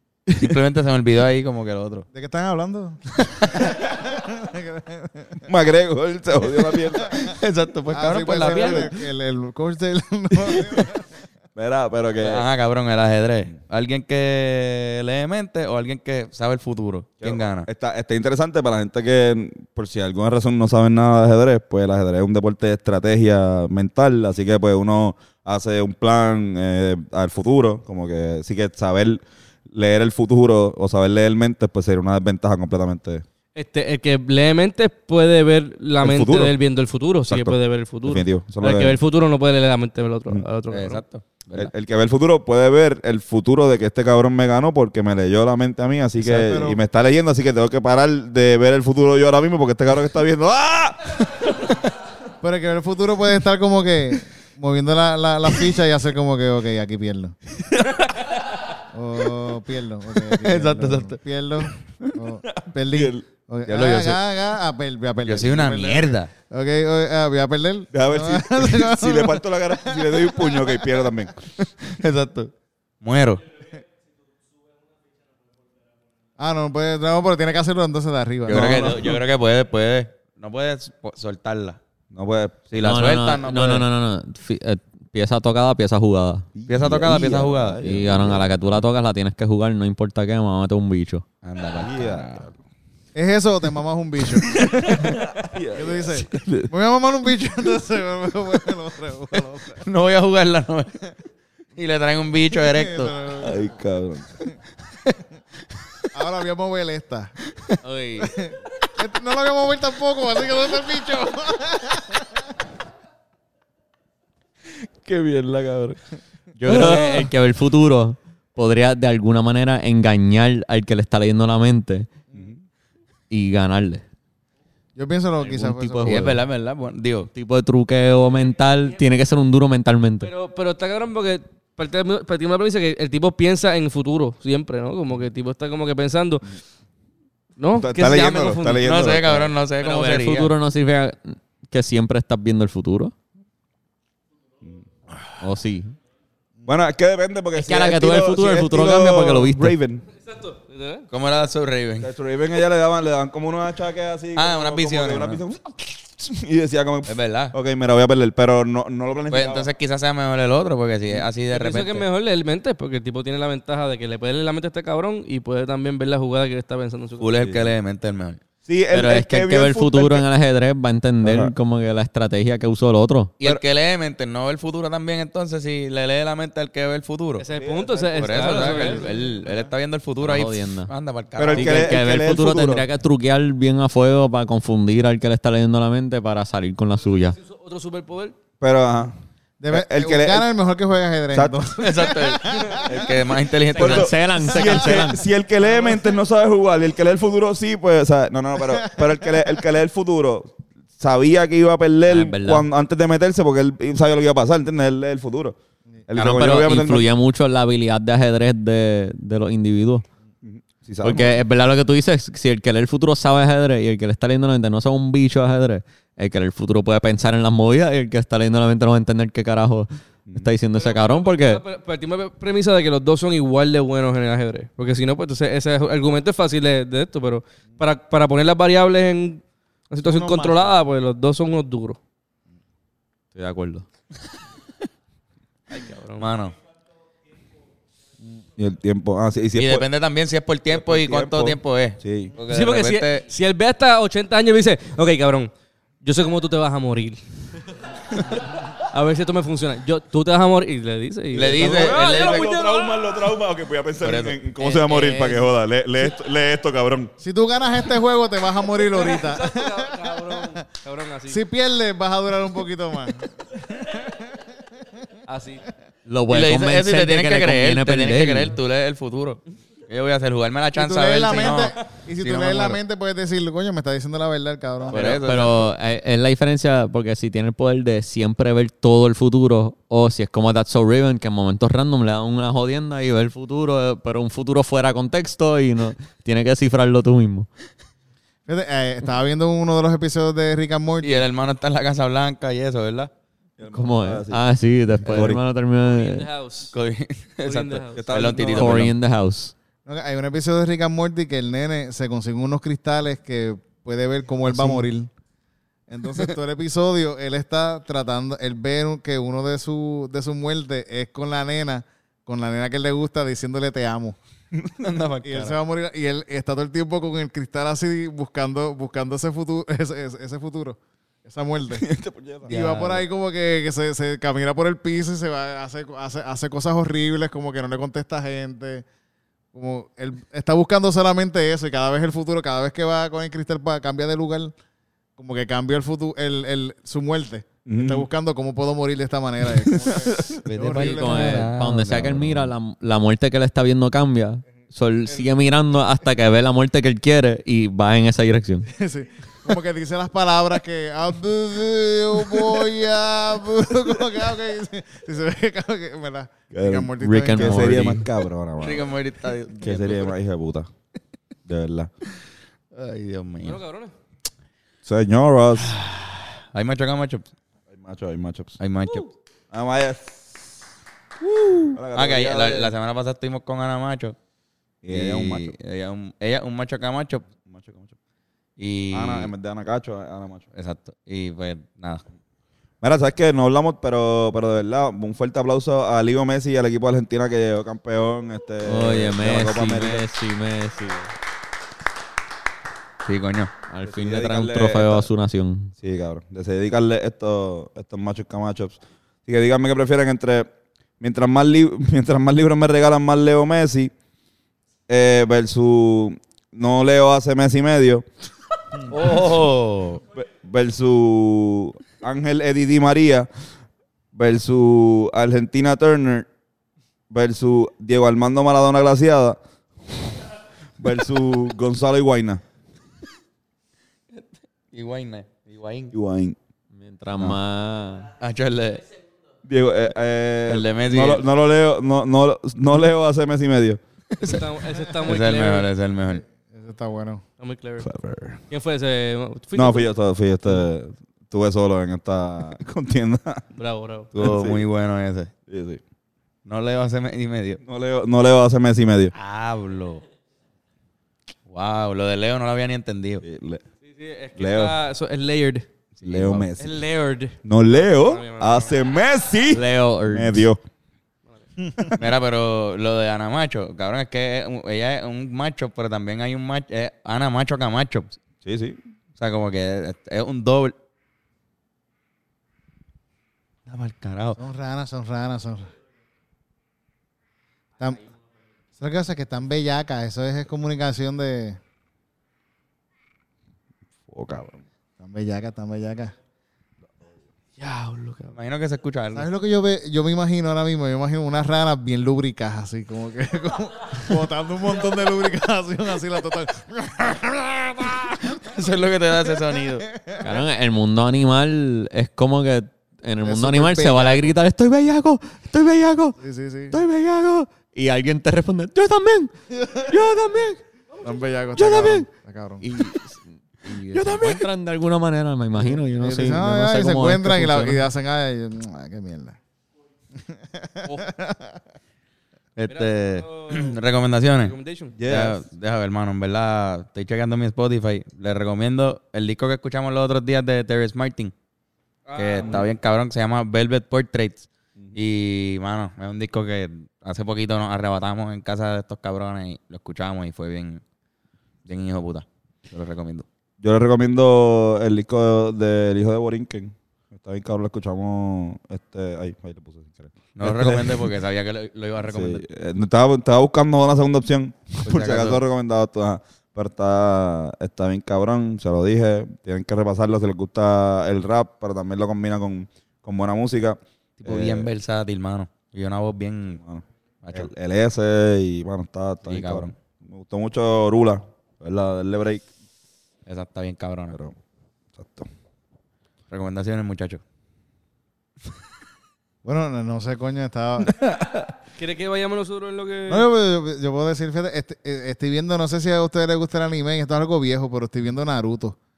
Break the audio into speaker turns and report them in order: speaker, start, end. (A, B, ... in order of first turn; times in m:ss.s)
0:00.3-0:02.1 A
0:02.1-0:05.5 B
0:03.2-0:03.4 A
0:05.5-0:07.2 C
0:07.2-0:08.9 A
0:07.9-0:11.0 B
0:08.4-0:08.8 C
0:11.5-0:12.4 C
0:12.2-0:17.7 A
0:17.2-0:33.2 C
0:33.5-0:41.0 D
0:36.0-0:36.5 C
0:37.2-0:39.0 C
0:40.7-0:41.7 A
0:41.5-0:51.6 C
0:46.2-0:46.8 B
0:52.4-0:57.4 B
0:57.9-0:58.3 A
0:58.9-1:10.7 B
1:00.3-1:01.2 A
1:02.4-1:03.2 C
1:03.7-1:04.2 A
1:05.2-1:06.3 A
1:07.9-1:11.7 C
1:11.9-1:12.5 A
1:13.0-1:13.4 A
1:16.4-1:19.2 B
1:18.5-1:21.8 A
1:22.1-1:22.7 C
1:22.7-1:23.9 A
1:22.8-1:26.5 E
1:26.6-1:28.8 C
1:26.7-1:27.8 A
1:27.8-1:31.2 E
1:31.4-1:32.5 A
1:31.8-1:32.6 C
1:33.1-1:35.2 B
1:34.8-1:35.1 A
1:35.2-1:36.7 C
1:35.7-1:39.8 B
1:39.8-1:41.0 A
1:41.8-1:43.1 A
1:42.5-1:43.7 B
1:43.4-1:44.3 C
1:46.1-1:47.3 B
1:47.7-1:48.2 A
1:48.2-1:52.5 B
1:55.0-1:56.0 C
1:56.6-1:57.3 A
1:56.6-2:02.1 E
2:03.3-2:04.0 E
2:05.0-2:06.3 B
2:05.4-2:06.4 E
2:06.0-2:07.3 A
2:07.3-2:10.3 E
2:10.2-2:16.5 D
2:17.6-2:19.0 D
2:17.7-2:19.5 C
2:18.8-2:20.5 A
2:19.8-2:23.1 E
2:25.4-2:26.0 E
2:26.6-2:30.0 C
2:27.5-2:29.7 E
2:30.2-2:31.1 D
2:31.1-2:32.1 A
2:32.0-2:39.7 C
2:34.4-2:35.4 A
2:37.1-2:37.5 A
2:39.3-2:42.0 A
2:41.5-2:47.4 D
2:47.2-2:48.4 A
2:47.4-2:47.7 C
2:48.6-2:50.2 C
2:48.9-2:53.3 E
2:51.2-2:51.5 C
2:53.4-2:57.4 A
2:57.4-2:59.1 D
2:57.5-2:59.3 C
2:58.2-3:02.0 A
3:00.2-3:00.9 E
3:01.4-3:02.8 C
3:01.5-3:07.4 E
3:07.4-3:08.3 D
3:08.6-3:09.1 C
3:09.6-3:13.0 B
3:09.7-3:10.5 C
3:11.3-3:11.6 C
3:11.8-3:14.2 A
3:13.7-3:14.1 D
3:13.8-3:25.6 C
3:13.8-3:15.2 E
3:22.1-3:22.6 E
3:26.1-3:27.1 C
3:26.2-3:30.0 E
3:30.4-3:31.4 C
3:31.0-3:41.6 E
3:40.8-3:52.0 D
3:50.0-3:50.7 B
3:53.3-3:53.8 E
3:55.7-3:56.3 D
3:56.2-3:56.6 A
3:58.6-3:59.9 C
3:59.6-4:03.2 A
4:00.7-4:02.3 C
4:02.5-4:05.5 D
4:06.0-4:07.2 D
4:08.3-4:13.1 D
4:11.3-4:12.5 A
4:11.6-4:17.1 C
4:14.0-4:14.4 A
4:14.6-4:15.5 D
4:17.2-4:20.6 B
4:18.9-4:21.4 D
4:21.3-4:24.2 B
4:25.3-4:25.6 D
4:26.0-4:28.5 E
4:26.3-4:32.8 A
4:30.7-4:35.2 B
4:34.9-4:35.7 A
4:35.0-4:47.5 E
4:48.5-4:51.2 B
4:51.0-4:53.1 A
4:53.6-4:54.4 C
4:53.7-4:56.3 E
4:55.0-4:55.4 C
4:55.8-4:56.7 D
4:56.7-4:58.9 A
4:57.4-4:58.1 D
4:57.9-4:58.9 C
4:58.5-4:59.5 E
4:59.8-5:05.1 B
5:05.9-5:14.2 B
5:14.6-5:15.6 A
5:15.2-5:21.9 B
5:21.8-5:22.5 C
5:22.4-5:23.0 A
5:22.4-5:28.8 B
5:29.5-5:34.5 B
5:35.2-5:41.5 B
5:37.6-5:38.1 C
5:39.5-5:40.4 C
5:40.4-5:42.5 A
5:40.8-5:48.7 E
5:48.7-5:57.9 B
5:56.5-5:58.8 C
5:57.0-5:58.1 E
5:58.6-6:00.1 A
5:59.6-6:00.7 C
6:01.4-6:01.9 C
6:02.7-6:03.6 A
6:03.4-6:03.9 D
6:04.8-6:05.8 C
6:05.6-6:07.3 A
6:07.7-6:08.6 C
6:08.6-6:09.1 A
6:09.5-6:10.4 C
6:11.2-6:14.2 A
6:11.7-6:12.7 C
6:14.8-6:15.5 C
6:14.9-6:17.3 A
6:17.4-6:17.9 C
6:18.6-6:19.3 A
6:18.9-6:20.5 C
6:20.5-6:22.0 A
6:22.8-6:30.1 C
6:28.6-6:31.1 E
6:33.0-6:33.5 A
6:33.7-6:35.7 E
6:33.8-6:35.1 C
6:35.8-6:43.9 C
6:44.9-6:48.0 C
6:48.9-6:50.0 A
6:50.1-6:53.3 C
6:54.1-6:56.3 C
6:57.1-6:59.4 C
7:00.8-7:02.4 C
7:04.1-7:05.9 A
7:05.9-7:06.4 C
7:06.7-7:08.1 E
7:08.2-7:08.8 A
7:09.4-7:13.8 C
7:10.5-7:11.2 A
7:14.2-7:16.2 A
7:14.2-7:15.7 D
7:16.4-7:17.2 B
7:17.4-7:17.9 D
7:17.8-7:18.4 C
7:18.5-7:19.9 D
7:19.5-7:23.4 C
7:23.5-7:24.1 D
7:24.1-7:25.3 A
7:24.2-7:24.6 C
7:25.5-7:25.8 C
7:26.4-7:27.6 A
7:27.6-7:29.1 C
7:29.1-7:30.0 A
7:31.5-7:33.2 A
7:33.2-7:33.6 C
7:33.8-7:35.7 D
7:34.4-7:34.8 C
7:36.0-7:36.5 A
7:36.0-7:36.8 C
7:36.6-7:38.8 D
7:37.4-7:40.6 C
7:39.5-7:40.5 E
7:41.8-7:42.1 C
7:42.0-7:48.2 A
7:48.4-7:48.8 C
7:49.2-7:50.7 A
7:53.7-7:54.4 A
7:54.4-7:55.7 B
7:57.8-7:58.0 B
7:58.8-8:01.6 B
8:04.1-8:04.6 C
8:05.0-8:06.1 B
8:07.6-8:08.4 D
8:08.3-8:09.2 A
8:09.1-8:18.2 B
8:18.4-8:19.8 A
8:19.9-8:20.3 B
8:20.2-8:26.2 E
8:23.2-8:24.3 B
8:26.2-8:26.8 B
8:26.7-8:30.6 E
8:29.5-8:30.0 B
8:31.0-8:32.7 B
8:31.6-8:32.1 E
8:32.6-8:37.9 E
8:35.6-8:39.4 B
8:40.2-8:41.6 B
8:42.6-8:51.3 A
8:42.7-8:43.8 D
8:44.4-8:44.9 D
8:45.0-8:45.4 C
8:52.1-8:52.7 D
8:52.2-9:00.8 A
9:01.6-9:03.3 A
9:03.6-9:11.1 C
9:10.4-9:12.4 A
9:12.0-9:24.7 C
9:14.8-9:15.4 A
9:24.2-9:26.6 A
9:26.6-9:32.5 C
9:27.2-9:27.5 A
9:29.2-9:29.8 A
9:33.2-9:34.2 A
9:34.1-9:34.4 C
9:35.0-9:35.3 C
9:36.3-9:37.2 A
9:39.4-9:40.9 B
9:40.9-9:41.5 C
9:41.8-9:43.2 D
9:43.1-9:48.8 B